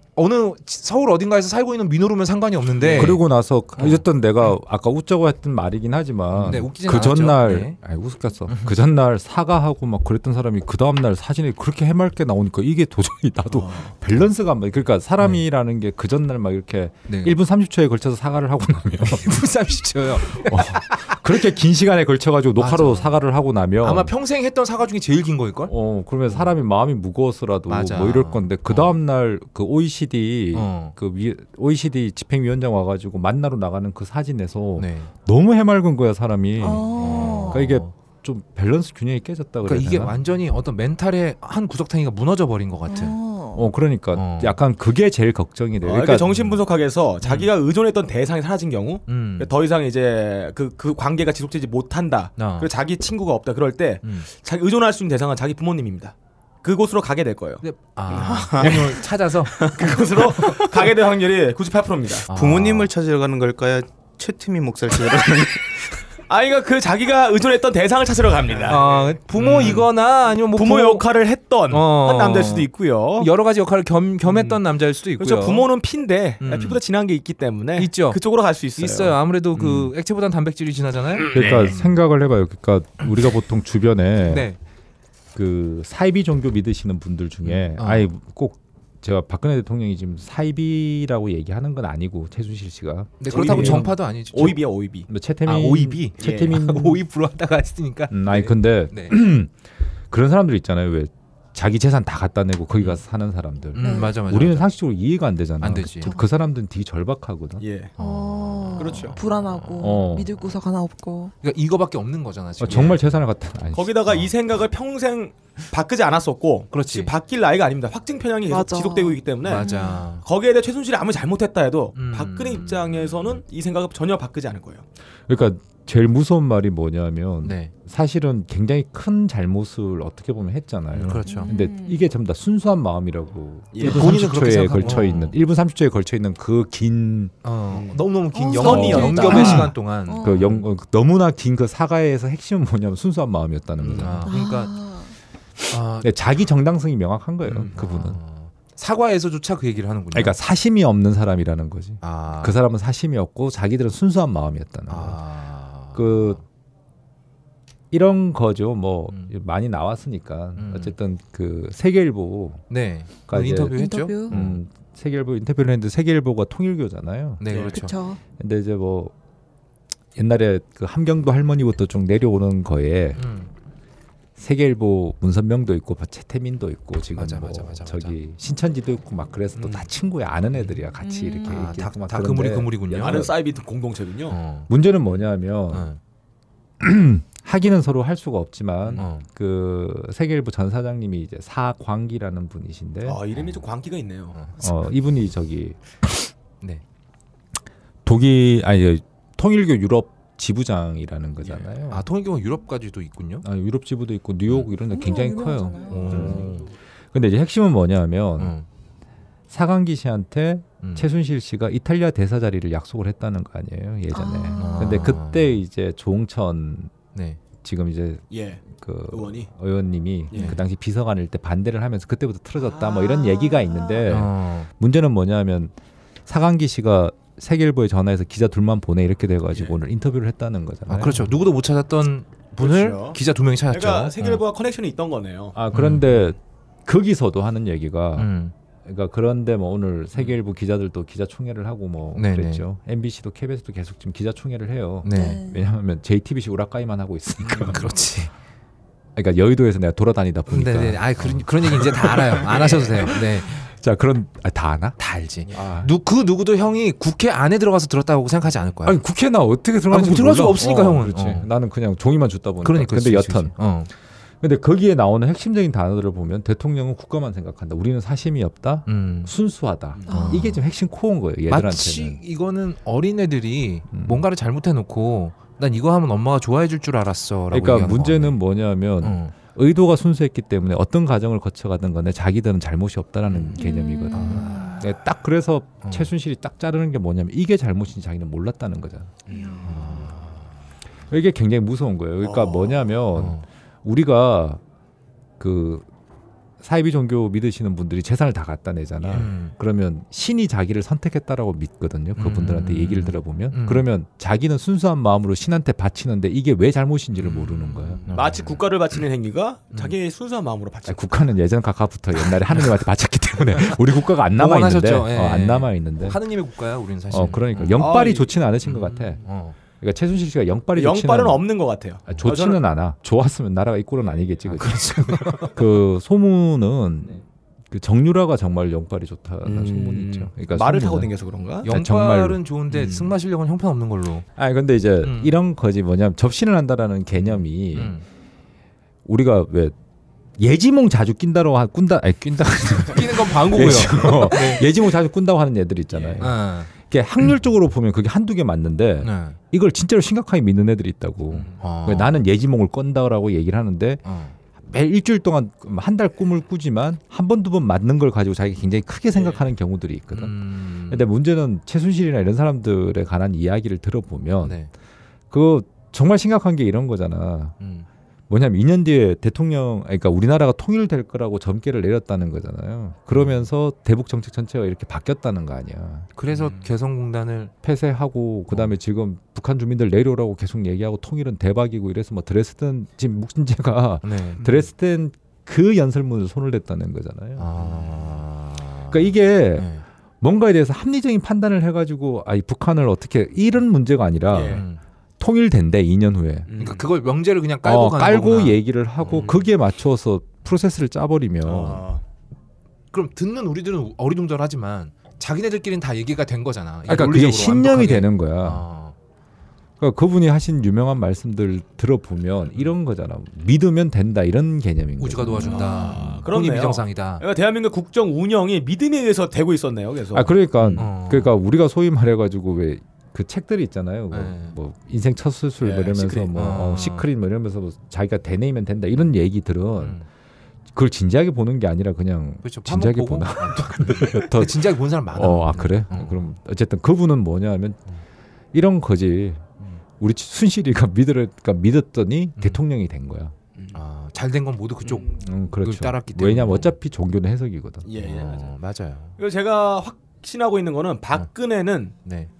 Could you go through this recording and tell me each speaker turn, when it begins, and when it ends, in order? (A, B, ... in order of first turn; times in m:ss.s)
0:00.2-0:03.2 A
0:02.8-0:03.1 B
0:02.9-0:19.4 C
0:03.8-0:04.0 A
0:06.3-0:07.8 A
0:08.5-0:08.7 A
0:13.5-0:13.9 B
0:17.1-0:17.4 A
0:19.0-0:21.3 A
0:19.9-0:24.1 C
0:22.6-0:23.2 A
0:23.8-0:25.7 A
0:25.7-0:40.1 C
0:27.7-0:29.0 A
0:30.5-0:30.9 A
0:34.8-0:35.1 A
0:36.6-0:37.6 D
0:36.8-0:37.9 A
0:39.6-0:43.2 A
0:42.9-0:43.7 D
0:43.5-0:46.4 C
0:44.1-0:44.6 A
0:45.8-1:02.3 B
0:46.3-0:46.6 A
0:47.2-0:47.5 A
0:49.1-0:49.5 A
0:52.4-0:52.7 A
0:57.6-1:00.2 A
0:58.5-0:58.8 E
1:02.3-1:02.9 A
1:02.3-1:05.8 E
1:06.3-1:13.3 B
1:08.7-1:11.0 A
1:11.7-1:15.7 A
1:14.2-1:14.6 B
1:15.2-1:19.2 B
1:16.4-1:16.8 A
1:17.8-1:18.2 A
1:18.8-1:22.0 A
1:19.6-1:19.9 C
1:21.3-1:24.5 C
1:24.3-1:24.6 A
1:25.3-1:34.0 C
1:27.4-1:28.1 A
1:33.2-1:34.6 A
1:33.3-1:35.1 B
1:35.1-1:37.0 C
1:35.4-1:39.2 A
1:36.2-1:36.6 B
1:38.1-1:39.5 C
1:40.1-1:47.6 C
1:43.7-1:44.7 A
1:43.8-1:44.1 D
1:45.6-1:46.1 A
1:47.6-1:47.9 B
1:48.0-1:50.0 A
1:48.0-1:51.3 D
1:48.8-1:49.2 B
1:49.8-1:50.3 C
1:51.4-1:53.2 A
1:52.6-1:54.1 C
1:53.7-1:59.6 B
1:56.7-1:57.1 A
1:58.5-2:00.0 D
1:59.4-2:00.2 A
2:00.2-2:04.8 B
2:01.9-2:03.4 A
2:05.3-2:17.3 C
2:07.4-2:07.7 A
2:10.9-2:11.5 A
2:11.2-2:12.0 D
2:13.7-2:14.1 B
2:13.8-2:15.4 A
2:17.4-2:20.6 A
2:17.7-2:18.0 B
2:18.3-2:20.4 D
2:18.5-2:19.7 B
2:18.6-2:24.3 C
2:23.8-2:24.1 B
2:23.9-2:24.7 A
2:24.2-2:25.2 D
2:25.7-2:26.1 A
2:26.0-2:28.2 C
2:27.4-2:30.4 A
2:30.1-2:35.2 C
2:32.0-2:32.6 A
2:34.9-2:36.4 A
2:35.9-2:36.4 C
2:37.9-2:42.6 C
2:40.6-2:40.9 A
2:42.7-2:44.6 A
2:43.3-2:47.6 C
2:43.7-2:44.3 D
2:47.4-2:48.0 A
2:47.5-2:47.8 B
2:47.6-2:48.2 D
2:48.4-2:49.1 C
2:50.1-2:53.2 C
2:53.1-2:53.5 A
2:54.4-3:03.4 C
2:57.1-2:58.2 A
2:59.6-2:59.9 B
3:01.0-3:01.6 D
3:01.4-3:03.3 A
3:03.0-3:04.4 B
3:04.3-3:04.7 A
3:04.7-3:05.9 C
3:05.7-3:06.0 A
3:06.8-3:13.2 C
3:08.9-3:09.2 A
3:13.0-3:14.4 B
3:14.3-3:14.7 A
3:14.6-3:16.3 C
3:18.0-3:22.0 C
3:21.4-3:23.4 A
3:23.4-3:26.6 C
3:24.9-3:26.5 D
3:25.9-3:26.7 A
3:27.1-3:28.5 C
3:28.4-3:28.6 A
3:29.5-3:36.9 C
3:30.8-3:31.1 A
3:34.1-3:35.1 D
3:34.6-3:35.6 A
3:37.1-3:37.4 A
3:37.6-3:45.7 C
3:38.3-3:39.5 B
3:40.3-3:40.6 B
3:42.6-3:43.0 B
3:43.0-3:44.0 D
3:44.1-3:44.7 A
3:46.2-3:51.3 C
3:49.5-3:49.8 B
3:50.9-3:54.4 A
3:52.6-3:55.6 B
3:55.5-3:58.3 C
3:55.7-3:56.2 A
3:58.2-3:58.5 A
3:58.8-4:07.9 C
4:02.2-4:02.6 A
4:05.0-4:05.4 A
4:05.1-4:05.6 D
4:07.4-4:08.3 A
4:09.1-4:15.0 C
4:10.5-4:13.6 A
4:15.0-4:19.0 A
4:15.5-4:16.0 C
4:18.8-4:23.6 C
4:19.9-4:21.5 A
4:22.6-4:23.9 A
4:24.4-4:32.2 C
4:28.9-4:29.3 A
4:30.1-4:30.6 A
4:30.1-4:30.4 D
4:31.5-4:38.4 A
4:33.9-4:34.2 C
4:37.5-4:49.1 C
4:39.0-4:39.3 A
4:43.3-4:43.6 A
4:43.6-4:44.8 D
4:44.1-4:44.8 A
4:45.8-4:46.1 A
4:49.3-4:50.1 B
4:49.3-4:49.8 D
4:49.6-4:50.4 A
4:51.1-4:54.6 C
4:52.2-4:52.9 B
4:53.1-4:53.4 A
4:55.4-4:55.8 C
4:56.6-5:08.0 C
4:59.0-4:59.5 A
5:02.2-5:03.8 A
5:07.1-5:08.6 A
5:08.0-5:11.3 B
5:10.8-5:16.2 C
5:13.6-5:17.9 A
5:17.1-5:21.4 C
5:17.7-5:18.3 B
5:18.6-5:19.6 A
5:20.7-5:22.6 B
5:22.1-5:31.1 C
5:24.4-5:25.6 A
5:29.4-5:31.7 B
5:30.5-5:30.8 A
5:31.6-5:32.4 C
5:31.6-5:34.2 A
5:32.7-5:33.1 B
5:34.4-5:38.0 C
5:35.0-5:35.3 A
5:37.7-5:38.0 A
5:39.0-5:39.7 C
5:40.4-5:54.0 C
5:42.8-5:44.7 A
5:45.9-5:46.2 B
5:46.2-5:46.7 A
5:49.0-5:49.4 A
5:51.3-5:51.6 B
5:51.6-5:52.2 A
5:54.0-5:54.4 A
5:54.6-6:04.6 C
5:59.1-5:59.5 B
6:00.1-6:01.0 A
6:04.4-6:04.7 A
6:05.3-6:07.6 C
6:07.6-6:07.9 A
6:08.3-6:16.1 C
6:13.1-6:13.5 A
6:16.2-6:17.5 A
6:16.3-6:16.6 B
6:17.6-6:27.5 C
6:24.0-6:24.4 A
6:27.4-6:29.8 A
6:27.6-6:28.0 B
6:28.9-6:34.6 C
6:34.3-6:34.6 B
6:34.4-6:34.8 A
6:35.2-6:36.5 C
6:36.5-6:36.9 B
6:36.6-6:39.3 A
6:37.6-6:41.8 C
6:39.1-6:39.4 B
6:41.4-6:42.0 B
6:42.9-6:48.9 A
6:46.8-6:48.6 C
6:49.8-6:56.2 C
6:55.0-6:57.2 A
6:55.4-6:56.0 D
6:55.4-7:00.8 B
7:00.1-7:10.0 C
7:00.7-7:01.3 A
7:04.1-7:04.5 A
7:05.6-7:06.3 B
7:06.3-7:07.1 A
7:09.8-7:10.0 A
7:10.7-7:17.8 C
7:12.4-7:16.3 A
7:18.5-7:23.3 C
7:22.4-7:22.6 A
7:23.7-7:26.8 A
7:24.8-7:25.2 B
7:25.1-7:27.8 C
7:27.8-7:28.5 B
7:27.9-7:29.2 A
7:29.2-7:32.0 B
7:32.0-7:32.3 A